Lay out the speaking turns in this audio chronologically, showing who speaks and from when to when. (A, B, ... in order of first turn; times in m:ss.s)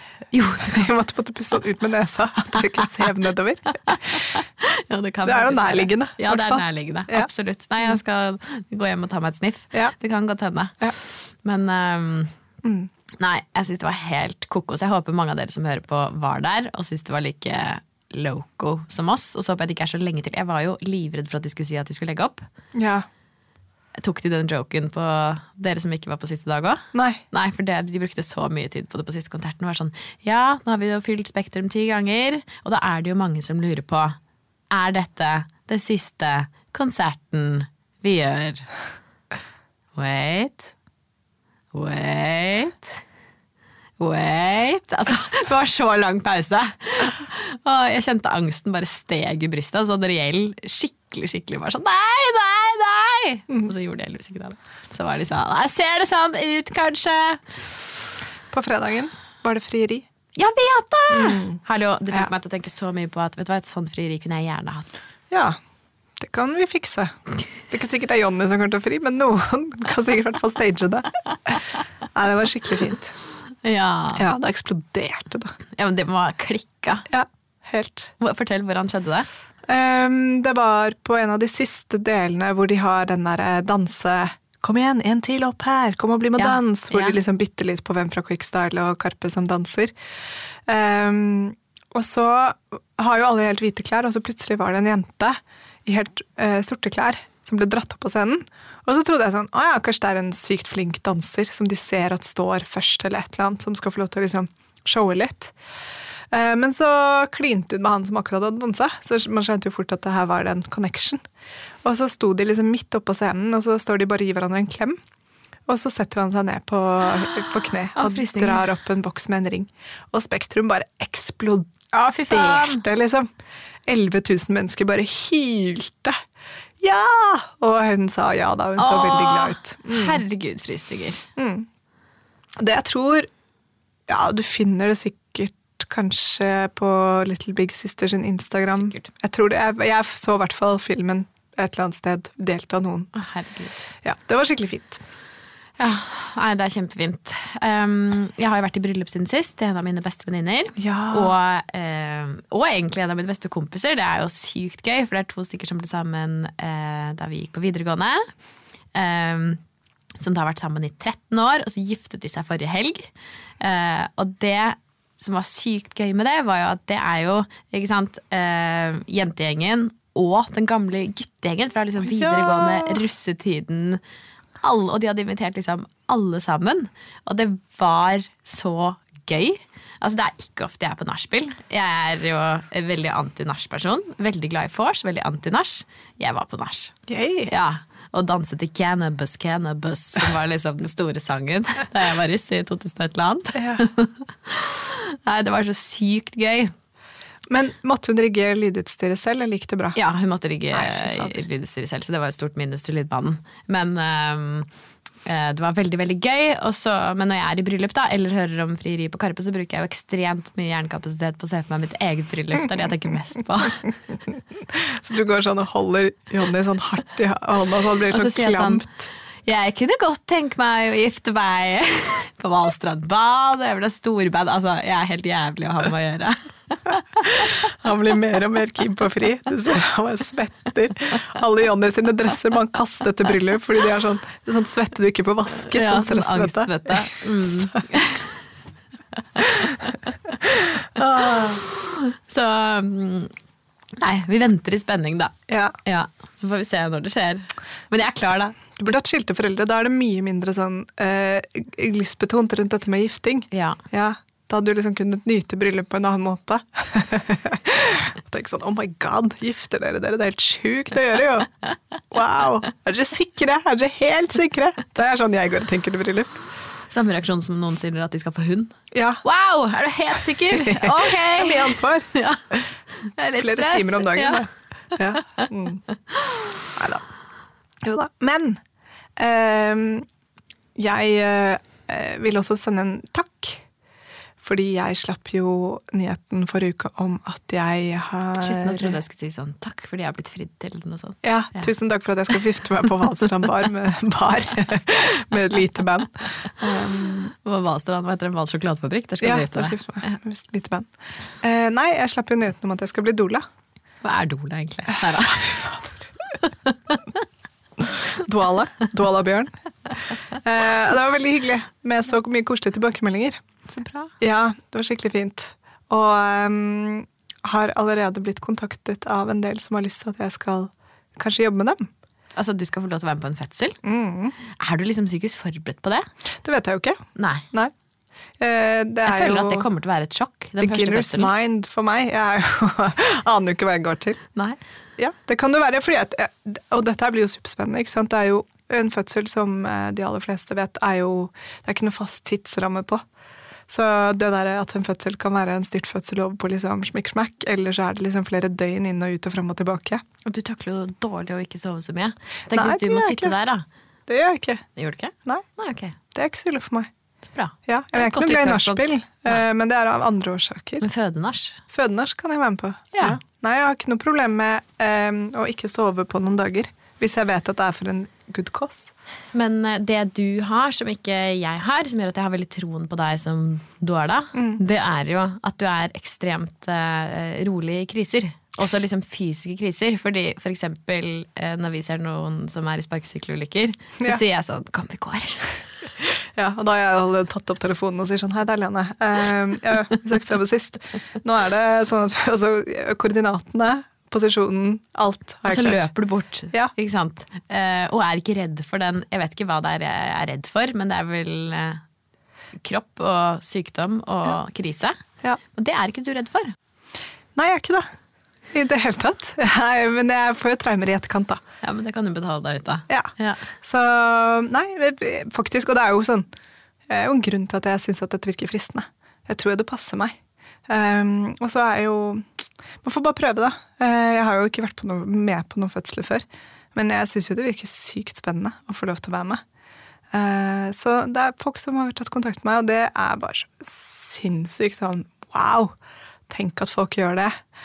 0:00.3-0:00.8 A
0:00.6-0:04.3 B
0:03.9-0:12.3 A
0:05.2-0:07.3 B
0:12.6-0:12.9 B
0:13.2-0:22.4 A
0:22.7-0:23.1 B
0:24.0-0:34.2 A
0:26.9-0:27.2 B
0:34.7-0:38.7 A
0:39.9-0:40.7 A
0:41.7-0:43.0 A
0:44.0-0:57.6 A
0:58.5-1:00.0 B
1:00.4-1:04.9 A
1:01.1-1:01.6 B
1:05.3-1:05.6 B
1:06.2-1:07.2 B
1:07.7-1:13.2 B
1:13.6-1:14.2 A
1:14.2-1:15.6 B
1:15.7-1:17.1 A
1:17.1-1:18.1 B
1:18.2-1:19.3 A
1:19.6-1:29.9 B
1:26.4-1:27.2 A
1:30.7-1:45.5 B
1:46.3-1:51.2 B
1:51.8-1:55.0 B
1:55.7-2:01.7 B
1:57.9-1:58.7 A
2:01.9-2:02.8 A
2:02.3-2:03.3 B
2:03.9-2:06.2 B
2:06.8-2:10.2 B
2:08.8-2:11.2 A
2:11.4-2:11.7 B
2:12.6-2:13.3 B
2:14.1-2:23.1 B
2:18.8-2:19.1 A
2:23.1-2:23.9 A
2:24.0-2:25.0 B
2:25.8-2:38.3 A
2:30.8-2:31.3 B
2:38.9-2:39.6 A
2:40.2-2:54.0 A
2:52.0-2:53.0 B
2:54.6-3:06.9 A
3:07.1-3:07.5 B
3:07.4-3:16.7 A
3:13.5-3:13.9 B
3:17.5-3:20.0 B
3:19.9-3:24.7 A
3:20.7-3:21.4 B
3:25.2-3:33.9 A
3:34.7-3:39.1 B
3:38.1-3:38.8 A
3:39.4-3:47.5 A
3:47.2-3:57.8 B
3:55.6-3:58.4 A
3:59.4-3:59.7 A
4:00.9-4:01.6 B
4:01.3-4:03.3 A
4:04.0-4:08.8 A
4:05.5-4:05.8 B
4:08.8-4:21.5 B
4:13.5-4:13.8 A
4:22.1-4:26.4 B
4:26.9-4:32.4 A
4:28.9-4:29.2 B
4:30.5-4:32.6 B
4:33.0-4:34.4 A
4:33.4-4:35.8 B
4:36.7-4:37.0 B
4:37.8-4:38.6 B
4:39.2-4:40.0 B
4:40.8-4:43.6 B
4:44.4-4:49.0 B
4:48.4-4:51.7 A
4:51.2-4:57.2 B
4:56.6-5:00.2 A
4:59.2-5:00.9 B
5:01.4-5:03.4 B
5:04.0-5:05.9 A
5:05.3-5:05.9 B
5:06.4-5:07.0 A
5:08.1-5:09.5 B
5:10.3-5:13.4 B
5:13.7-5:14.1 A
5:14.2-5:21.9 B
5:22.4-5:23.8 A
5:23.8-5:24.4 B
5:24.4-5:26.1 A
5:26.4-5:27.7 B
5:27.2-5:27.4 A
5:28.4-5:29.7 B
5:29.0-5:31.3 A
5:30.6-5:34.2 B
5:35.0-5:43.0 B
5:43.7-5:50.0 B
5:50.2-5:53.6 A
5:52.5-5:53.3 B
5:54.1-5:54.7 B
5:54.8-5:56.0 A
5:56.1-5:56.9 B
5:57.3-5:59.4 A
5:57.7-6:00.8 B
6:00.8-6:01.6 A
6:01.7-6:08.9 B
6:02.9-6:03.2 A
6:09.3-6:25.6 A
6:14.3-6:14.6 B
6:26.3-6:35.9 B
6:35.4-6:41.8 A
6:42.6-6:45.0 A
6:45.5-6:46.5 A
6:47.3-6:47.9 B
6:48.5-6:51.4 B
6:51.6-6:53.5 A
6:52.9-6:56.3 B
6:56.9-7:09.4 B
7:10.1-7:15.7 B
7:16.3-7:17.4 B